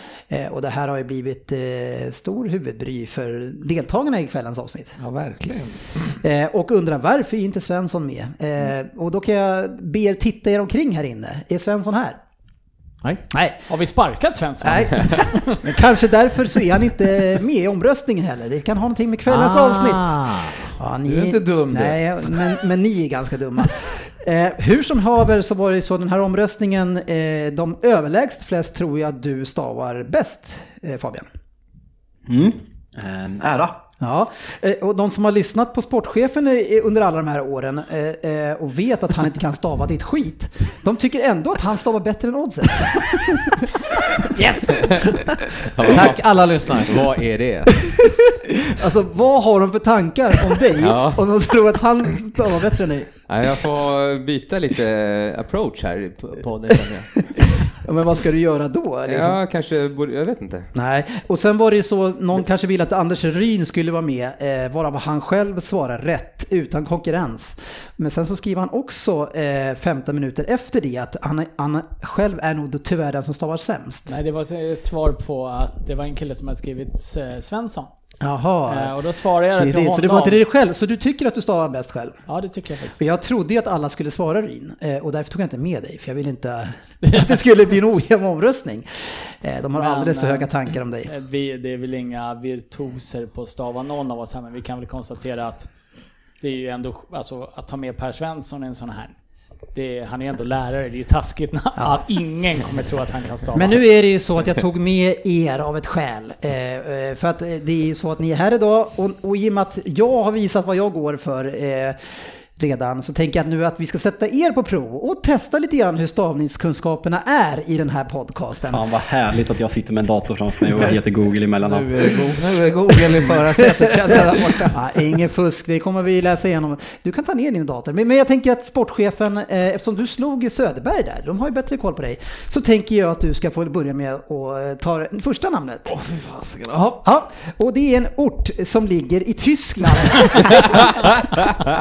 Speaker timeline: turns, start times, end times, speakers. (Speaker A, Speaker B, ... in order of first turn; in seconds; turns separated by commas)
Speaker A: 0.3-5.0, Speaker B: 5.0-6.2, Speaker A: 6.2-12.2, Speaker A: 13.3-13.6, Speaker C: 13.7-15.6, Speaker A: 14.6-31.3, Speaker B: 19.3-22.4, Speaker D: 32.3-33.9, Speaker A: 34.0-43.7, Speaker B: 44.2-47.2, Speaker E: 44.8-48.0, Speaker A: 48.7-53.1, Speaker E: 50.8-51.3, Speaker E: 53.3-57.1, Speaker A: 57.3-59.4, Speaker E: 59.1-60.7, Speaker A: 60.7-74.1, Speaker C: 74.1-77.9, Speaker A: 78.2-79.0, Speaker C: 78.7-80.4, Speaker A: 79.5-82.2, Speaker C: 82.3-83.1, Speaker A: 83.0-91.1, Speaker C: 89.8-90.5, Speaker C: 91.1-95.7, Speaker C: 96.4-99.1, Speaker C: 99.7-103.8, Speaker A: 101.8-102.0, Speaker A: 103.5-118.9, Speaker D: 118.7-122.3, Speaker B: 121.6-124.8, Speaker A: 123.8-135.9, Speaker B: 135.9-137.0, Speaker A: 137.0-141.2